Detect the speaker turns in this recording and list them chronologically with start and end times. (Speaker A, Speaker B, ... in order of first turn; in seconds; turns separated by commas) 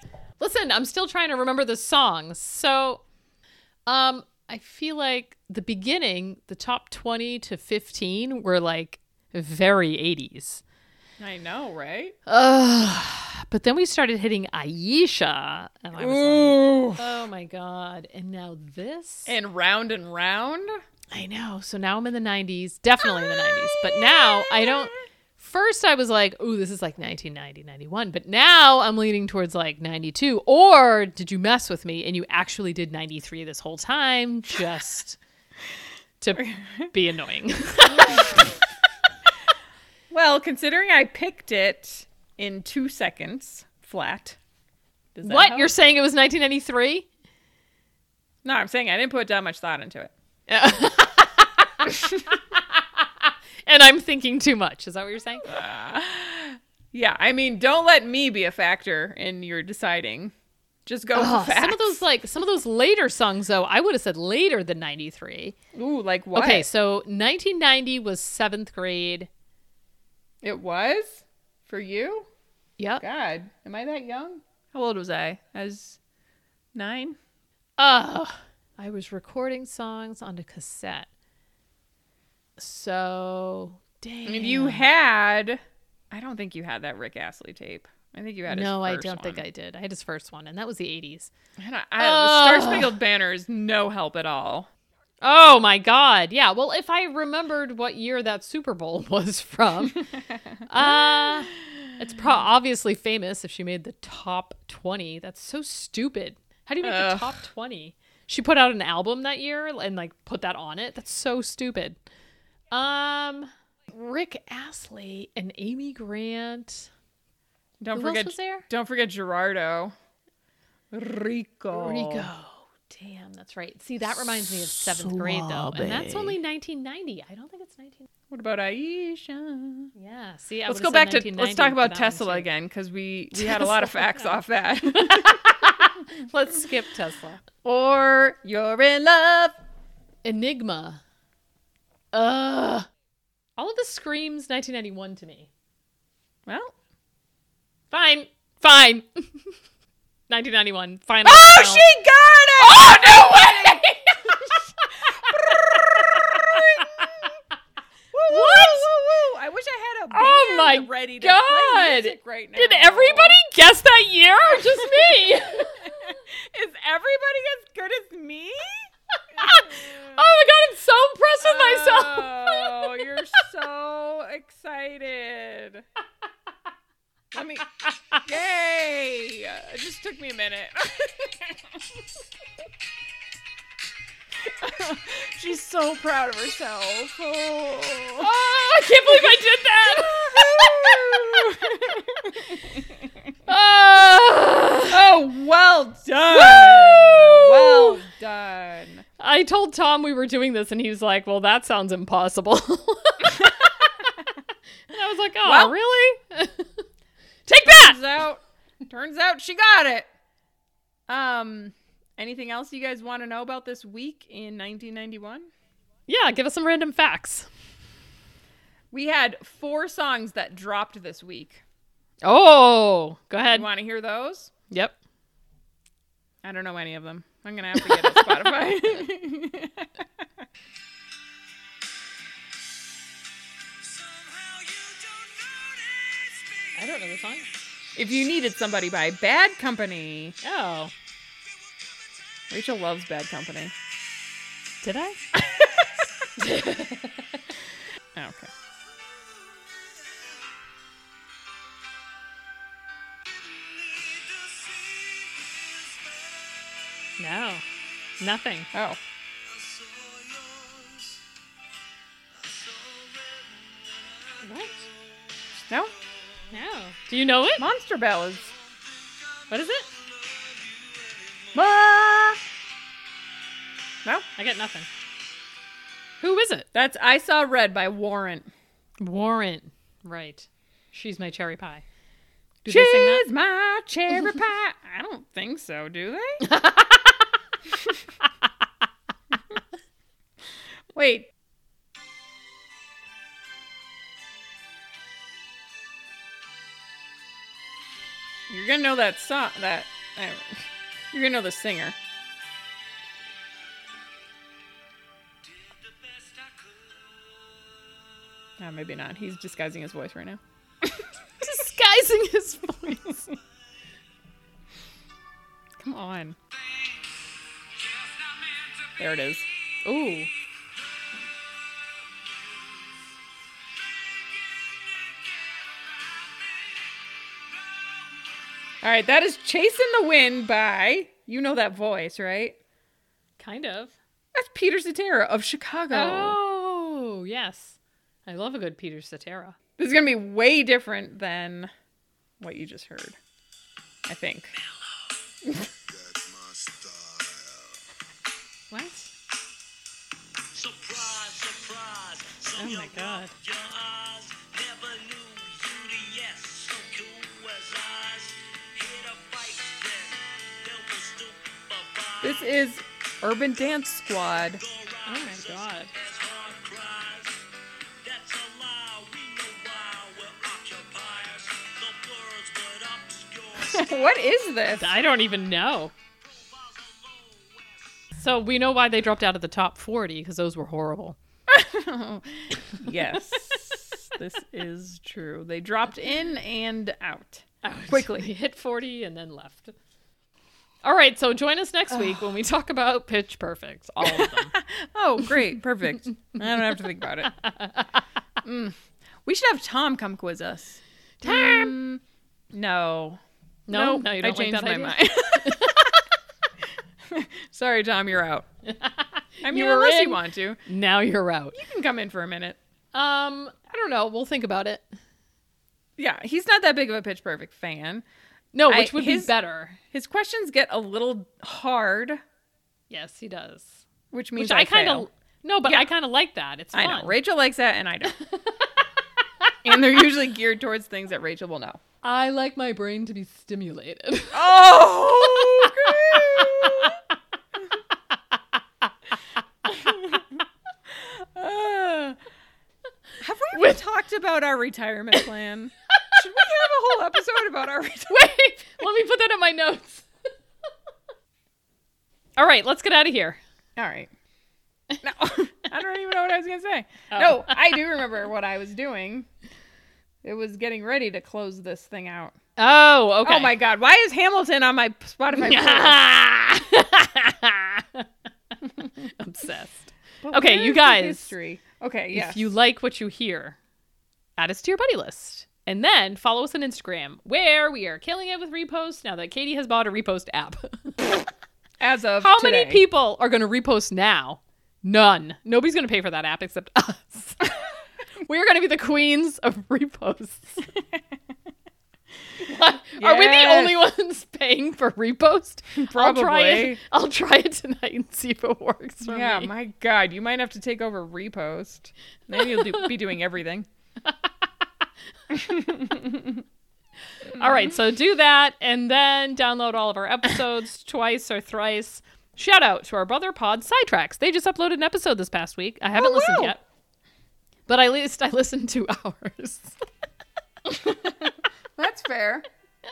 Speaker A: 0.4-3.0, Speaker A: 3.9-10.6, Speaker B: 11.2-12.2, Speaker A: 12.3-19.3, Speaker B: 16.0-17.2, Speaker B: 19.3-20.8, Speaker A: 21.1-35.2, Speaker B: 23.0-25.0, Speaker A: 36.2-38.5, Speaker B: 36.4-36.9, Speaker B: 40.1-44.4, Speaker B: 45.1-45.7, Speaker A: 45.2-47.1, Speaker B: 48.4-50.1, Speaker A: 50.5-51.7, Speaker B: 51.9-52.2, Speaker A: 52.6-55.5, Speaker B: 55.4-60.3, Speaker B: 60.9-62.0, Speaker A: 61.1-65.6, Speaker B: 65.7-66.7, Speaker A: 66.3-69.3, Speaker B: 70.4-72.3, Speaker A: 72.8-73.0, Speaker B: 73.0-76.0, Speaker B: 76.8-77.2, Speaker A: 77.8-81.1, Speaker A: 82.6-84.9, Speaker B: 84.3-85.6, Speaker B: 86.1-89.4, Speaker A: 88.5-91.3, Speaker B: 91.6-94.7, Speaker A: 92.0-93.0, Speaker A: 95.2-100.1, Speaker B: 99.9-101.8, Speaker A: 100.7-112.0, Speaker B: 106.8-107.4, Speaker A: 112.7-116.9, Speaker B: 117.8-119.9, Speaker A: 118.0-118.7, Speaker B: 120.9-122.3, Speaker A: 121.7-128.1, Speaker B: 125.0-126.3, Speaker B: 128.3-129.9, Speaker A: 129.9-132.5, Speaker B: 130.7-135.7, Speaker A: 133.3-137.4, Speaker B: 137.6-139.6, Speaker A: 140.2-141.0, Speaker A: 142.1-142.9, Speaker A: 143.6-145.5, Speaker B: 146.5-146.7, Speaker A: 147.9-149.6, Speaker A: 150.3-151.9, Speaker B: 151.2-153.8, Speaker A: 152.6-157.3, Speaker B: 155.0-157.3, Speaker B: 158.1-163.4, Speaker A: 158.3-158.9, Speaker A: 160.1-166.2, Speaker B: 164.4-170.3, Speaker A: 169.3-173.1, Speaker B: 171.4-175.8, Speaker B: 177.3-182.0, Speaker B: 184.4-188.3, Speaker A: 188.2-191.5, Speaker B: 189.0-192.9, Speaker A: 193.5-195.0, Speaker B: 194.9-199.0, Speaker A: 196.3-198.0, Speaker A: 199.2-204.1, Speaker A: 204.9-206.7, Speaker B: 205.4-205.8, Speaker A: 207.5-208.0, Speaker B: 207.6-210.1, Speaker B: 211.1-215.5, Speaker A: 216.1-217.5, Speaker B: 218.9-221.6, Speaker A: 222.2-223.7, Speaker B: 223.5-224.5, Speaker A: 224.7-225.0, Speaker B: 226.4-230.3, Speaker A: 227.9-228.7, Speaker C: 233.8-237.4, Speaker A: 236.8-237.5, Speaker B: 238.0-240.4, Speaker A: 240.4-240.9, Speaker C: 241.4-242.5, Speaker B: 242.5-243.7, Speaker A: 244.8-245.2, Speaker C: 245.6-245.9, Speaker A: 246.4-247.4, Speaker B: 248.2-248.5, Speaker C: 248.9-250.3, Speaker C: 253.6-256.7, Speaker A: 257.2-257.6, Speaker A: 258.2-258.7, Speaker B: 258.7-259.0, Speaker C: 259.4-261.2, Speaker C: 262.3-266.5, Speaker A: 264.4-264.9, Speaker A: 266.5-267.7, Speaker B: 267.6-268.5, Speaker C: 268.3-271.7, Speaker A: 269.5-269.9, Speaker B: 271.6-272.4, Speaker A: 274.4-274.9, Speaker A: 276.2-276.7, Speaker B: 276.7-278.5, Speaker A: 279.0-281.9, Speaker A: 282.6-283.3, Speaker B: 282.7-286.4, Speaker A: 286.4-287.3, Speaker B: 290.9-291.3, Speaker B: 298.5-302.0, Speaker C: 305.4-307.6, Speaker B: 308.6-311.1, Speaker A: 311.4-313.3, Speaker B: 315.8-316.4, Speaker C: 316.6-319.1, Speaker B: 319.0-319.5, Speaker A: 319.8-320.3, Speaker C: 321.6-323.1, Speaker C: 323.9-328.7, Speaker B: 328.8-332.6, Speaker A: 333.4-334.0, Speaker B: 334.4-336.4, Speaker A: 335.9-339.6, Speaker B: 339.8-341.7, Speaker B: 342.4-343.2, Speaker B: 344.1-344.6, Speaker B: 345.4-345.7, Speaker C: 345.9-347.7, Speaker B: 348.7-349.1, Speaker C: 350.5-362.4, Speaker A: 352.6-353.3, Speaker B: 362.2-364.6, Speaker C: 364.6-367.4, Speaker A: 365.1-365.9, Speaker C: 368.0-373.9, Speaker B: 373.6-374.9, Speaker A: 374.7-375.9, Speaker C: 376.2-378.2, Speaker A: 378.2-381.2, Speaker B: 381.5-388.3, Speaker A: 387.6-389.7, Speaker A: 390.8-394.6, Speaker B: 394.0-397.3, Speaker A: 397.4-398.0, Speaker B: 398.4-402.0, Speaker A: 401.2-401.7, Speaker B: 402.5-405.9, Speaker A: 403.7-406.1, Speaker B: 407.1-408.5, Speaker A: 408.6-411.6, Speaker B: 409.4-410.6, Speaker B: 411.5-412.6, Speaker A: 412.9-414.9, Speaker B: 416.0-418.1, Speaker A: 418.5-419.8, Speaker B: 418.7-419.3, Speaker B: 419.9-422.2, Speaker A: 422.9-423.8, Speaker B: 424.1-425.1, Speaker A: 424.4-427.2, Speaker B: 426.7-428.2, Speaker B: 429.6-431.8, Speaker A: 432.0-437.0, Speaker B: 434.3-437.0, Speaker B: 439.7-442.2, Speaker B: 443.2-448.2, Speaker A: 443.5-443.8, Speaker A: 448.1-450.1, Speaker A: 452.4-453.4, Speaker B: 453.8-454.1, Speaker B: 455.0-459.3, Speaker A: 457.1-457.8, Speaker B: 460.2-462.4, Speaker A: 462.6-463.6, Speaker B: 463.2-466.0, Speaker A: 465.3-468.1, Speaker A: 468.8-471.3, Speaker B: 470.2-472.5, Speaker A: 472.1-473.6, Speaker A: 474.4-481.1, Speaker B: 481.8-482.8, Speaker A: 482.2-487.5, Speaker A: 488.2-490.7, Speaker A: 492.4-499.5, Speaker B: 493.0-493.8, Speaker B: 495.8-496.8, Speaker B: 499.0-503.7, Speaker A: 504.1-504.5, Speaker B: 505.4-506.4, Speaker A: 507.4-516.6, Speaker B: 516.0-516.5, Speaker A: 517.7-519.8, Speaker B: 520.7-522.5